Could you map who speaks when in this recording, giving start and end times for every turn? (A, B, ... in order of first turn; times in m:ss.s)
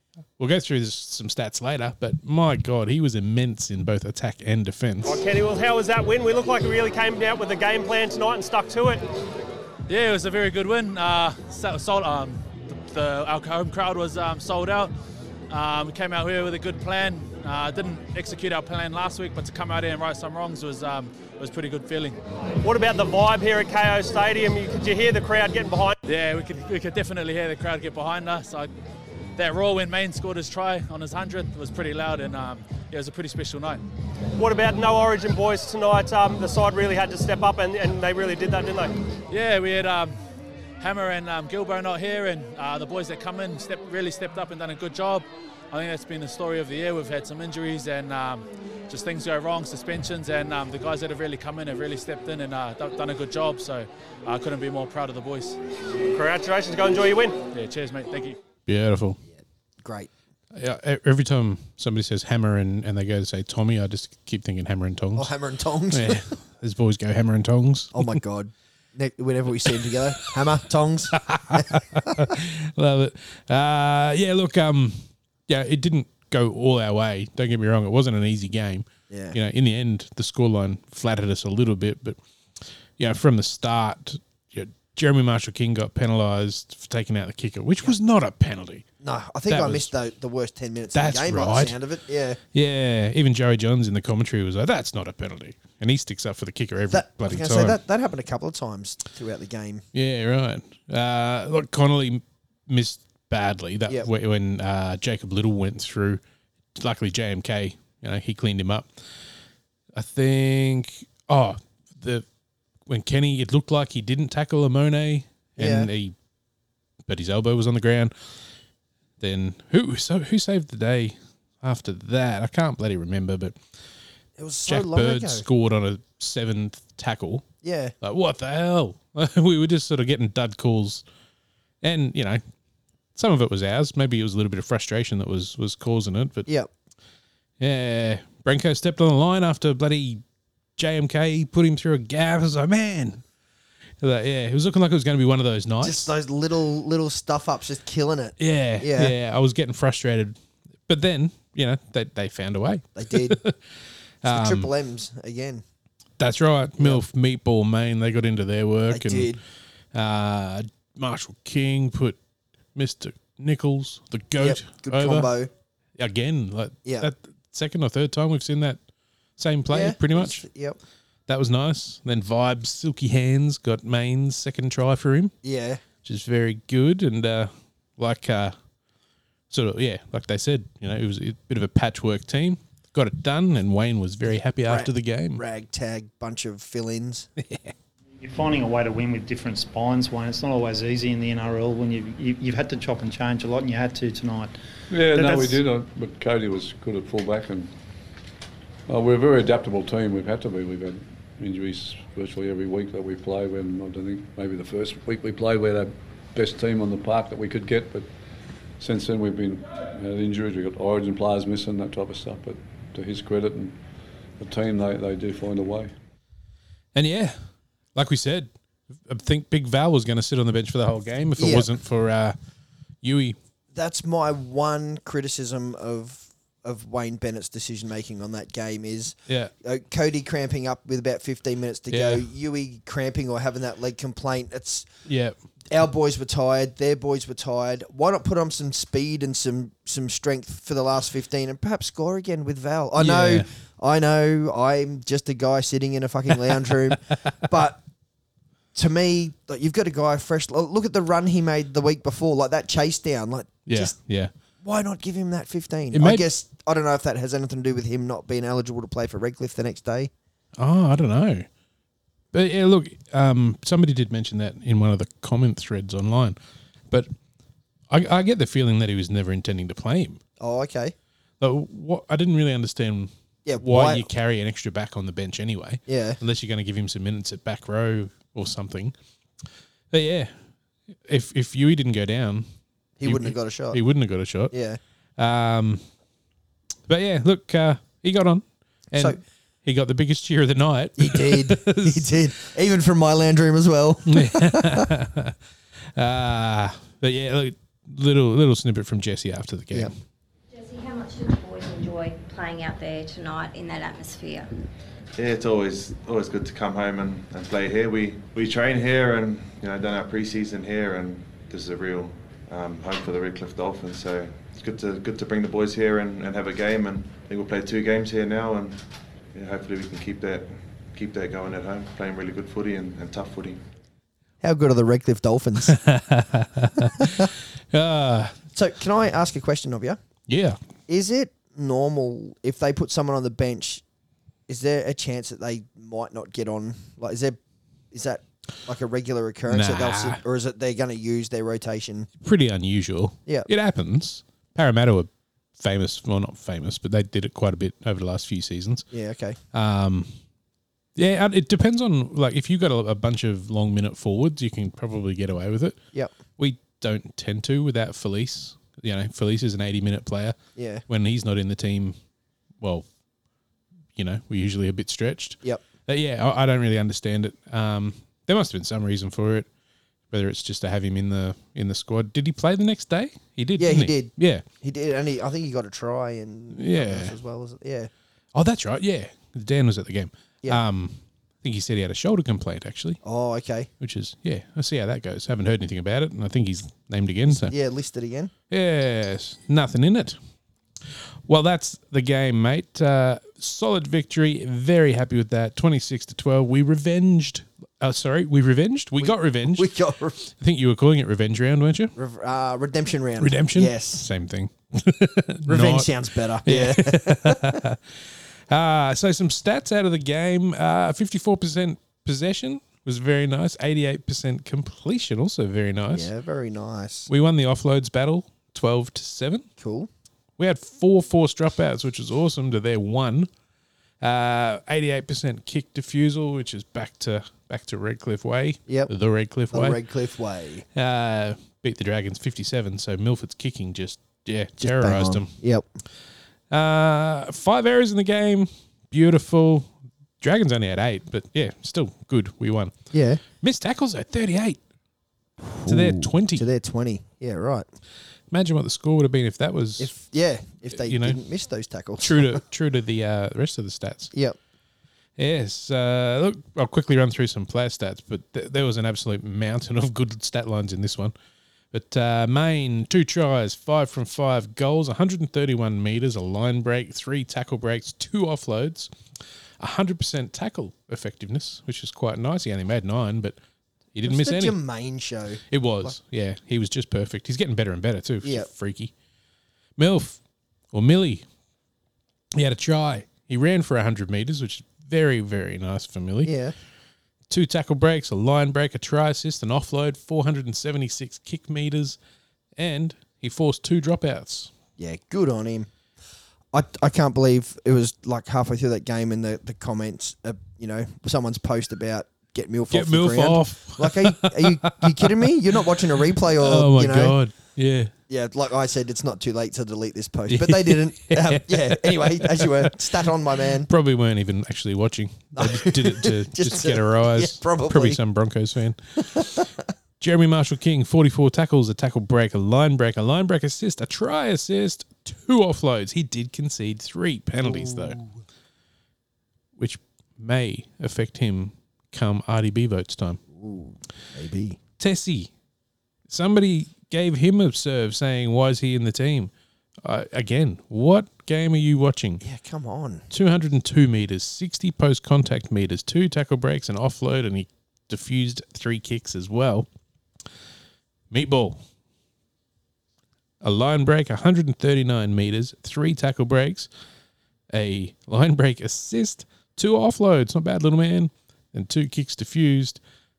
0:00.4-0:05.2 A
0:05.0-0:09.0 B
0:09.9-0:14.9 C
0:15.5-0:22.2 C
0:22.6-0:26.0 B
0:26.1-0:28.7 C
0:29.4-0:33.8 C
0:34.4-0:38.9 B
0:39.3-0:40.2 C
0:40.8-0:55.6 C
0:56.1-0:57.4 B
0:57.5-0:58.4 C
0:58.7-0:59.2 A
0:59.8-1:00.1 D
1:00.5-1:05.3 A
1:05.1-1:06.3 D
1:05.9-1:08.2 A
1:07.9-1:12.3 D
1:09.8-1:10.3 A
1:11.1-1:22.2 A
1:19.1-1:19.4 D
1:23.0-1:28.9 A
1:29.0-1:32.4 D
1:29.5-1:29.9 A
1:30.9-1:31.8 A
1:32.5-1:37.8 A
1:36.9-1:39.8 D
1:39.9-1:46.2 A
1:46.8-1:48.9 A
1:50.0-1:52.2 A
1:52.9-1:56.1 A
1:55.6-1:55.9 D
1:57.1-1:58.1 A
1:59.2-2:03.6 A
2:04.4-2:05.5 D
2:04.6-2:07.5 A
2:07.6-2:08.0 D
2:08.0-2:11.0 A
2:11.8-2:12.4 A
2:13.1-2:16.5 A
2:17.6-2:20.2 A
2:20.8-2:23.2 A
2:24.0-2:26.1 A
2:25.8-2:29.1 D
2:28.4-2:33.6 A
2:33.0-2:33.4 D
2:34.2-2:34.7 A
2:34.2-2:35.6 D
2:36.2-2:39.3 A
2:38.9-2:39.4 D
2:39.9-2:42.2 A
2:42.8-2:45.3 A
2:44.4-2:45.5 D
2:46.0-2:48.8 A
2:49.4-2:50.4 A
2:49.7-2:50.8 D
2:51.3-2:55.3 A
2:55.4-2:55.8 D
2:56.0-2:58.5 A
2:59.5-3:05.4 A
3:04.6-3:07.3 D
3:07.4-3:07.7 A
3:08.2-3:14.6 E
3:14.9-3:17.7 F
3:15.1-3:15.6 E
3:18.9-3:28.1 F
3:28.8-3:33.8 F
3:34.4-3:35.9 F
3:37.0-3:37.4 A
3:38.0-3:38.5 A
3:39.1-3:42.4 A
3:41.4-3:41.7 D
3:43.0-3:43.4 A
3:43.7-3:54.9 D
3:51.9-3:52.3 A
3:55.1-3:55.4 A
3:55.7-4:07.8 D
4:03.0-4:03.5 A
4:08.7-4:14.0 D
4:13.7-4:14.3 A
4:14.6-4:20.1 D
4:15.9-4:16.2 A
4:20.6-4:21.5 A
4:22.3-4:26.4 A
4:27.9-4:30.2 A
4:30.4-4:31.0 D
4:31.4-4:38.9 A
4:33.4-4:34.1 D
4:35.9-4:36.2 D
4:39.9-4:40.3 A
4:41.1-4:42.5 A
4:43.0-4:43.8 D
4:43.0-4:44.5 A
4:44.5-4:44.8 D
4:45.2-4:45.8 A
4:46.9-4:52.1 A
4:48.9-4:49.2 D
4:51.0-4:54.9 D
4:54.1-4:55.4 A
4:56.0-4:59.9 A
5:00.5-5:04.5 G
5:05.2-5:18.8 H
5:19.3-5:23.6 H
5:24.4-5:25.8 D
5:25.6-5:28.3 A
5:27.0-5:27.3 D
5:28.5-5:30.0 D
5:30.3-5:30.6 A
5:30.9-5:33.8 D
5:34.5-5:37.4 D
5:37.9-5:42.1 D
5:39.5-5:40.2 A
5:42.2-5:48.9 A
5:48.9-5:49.4 D
5:49.5-5:50.1 A
5:51.0-5:55.8 A
5:56.4-6:02.0 A
6:00.6-6:00.8 D
6:02.6-6:02.9 A
6:04.0-6:09.5 A
6:10.1-6:14.4 A
6:13.6-6:17.9 D
6:16.5-6:17.1 A
6:18.4-6:23.0 A
6:23.0-6:23.7 D
6:23.8-6:27.5 A
6:27.3-6:28.3 D
6:28.5-6:30.2 A
6:31.3-6:39.7 A
6:39.0-6:40.2 D
6:40.2-6:41.9 A
6:42.0-6:44.1 D
6:43.2-6:45.9 A
6:45.5-6:47.6 D
6:46.4-6:47.8 A
6:48.5-6:56.1 A
6:55.9-6:57.1 D
6:57.1-6:59.5 A
6:59.6-6:59.9 D
7:00.4-7:03.3 A
7:04.0-7:09.8 A
7:08.7-7:08.9 D
7:09.5-7:10.6 D
7:10.8-7:15.3 A
7:14.6-7:15.6 D
7:16.5-7:19.7 A
7:20.2-7:22.8 A
7:22.9-7:23.2 D
7:23.4-7:24.6 A
7:25.5-7:27.7 D
7:25.6-7:26.5 A
7:28.3-7:29.9 A
7:29.8-7:32.4 D
7:30.7-7:31.2 A
7:32.0-7:34.1 A
7:35.2-7:41.1 A
7:41.7-7:48.9 A
7:49.6-7:53.4 A
7:53.9-7:54.6 A
7:54.0-7:56.0 D
7:55.5-7:58.9 A
7:58.2-7:58.5 D
7:59.8-8:00.2 A
8:00.7-8:01.2 A
8:02.4-8:06.3 A
8:06.2-8:06.5 D
8:07.3-8:12.0 A
8:12.6-8:14.5 A
8:14.8-8:15.7 D
8:16.5-8:27.2 D
8:22.7-8:25.6 A
8:26.2-8:27.9 A
8:28.1-8:33.7 D
8:30.3-8:33.1 A
8:33.6-8:39.2 A
8:35.4-8:38.0 D
8:39.0-8:39.6 D
8:40.0-8:48.0 A
8:47.4-8:48.1 D
8:49.6-8:53.2 A
8:53.3-8:54.6 D
8:54.8-8:55.3 A
8:56.1-8:59.3 A
8:59.8-9:02.2 A
9:02.2-9:03.1 D
9:03.1-9:09.7 A
9:11.1-9:11.6 A
9:13.4-9:16.7 A
9:17.5-9:22.8 A